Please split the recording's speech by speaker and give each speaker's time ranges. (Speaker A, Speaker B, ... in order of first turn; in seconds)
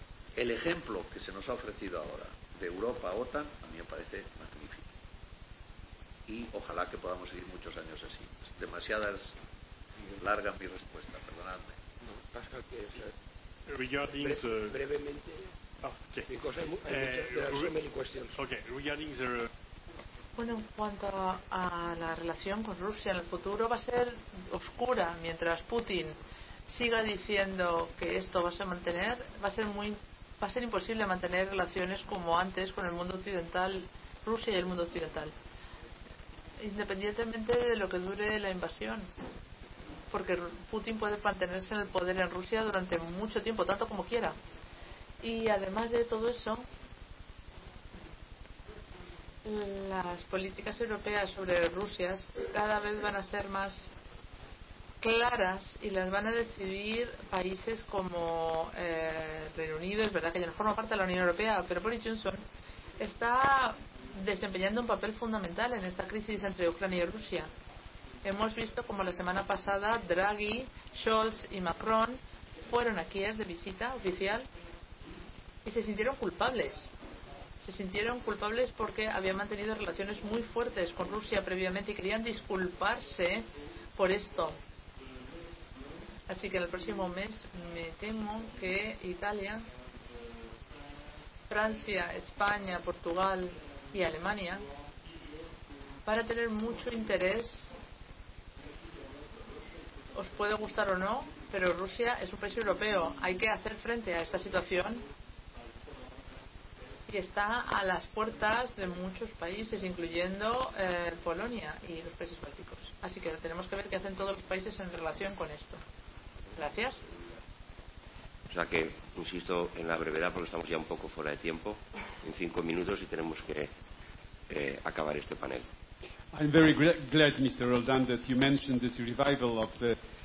Speaker A: 0.3-4.9, 6.3-9.3, 10.2-11.8
Speaker B: 12.2-13.0, 118.5-123.7, 124.5-125.6
Speaker C: 13.7-14.8, 15.8-16.3, 16.9-17.7, 18.3-19.5
Speaker D: 14.2-15.5, 16.2-18.4
Speaker E: 20.4-26.1, 26.7-35.3, 36.6-39.1, 40.1-44.4, 45.2-46.7, 49.4-53.9, 55.0-62.4, 63.0-67.5, 68.2-74.5, 75.6-76.9, 77.6-84.5, 86.3-89.7, 91.5-94.6, 96.0-97.7, 100.1-105.0, 107.1-115.8, 116.5-117.0
Speaker F: 126.3-130.0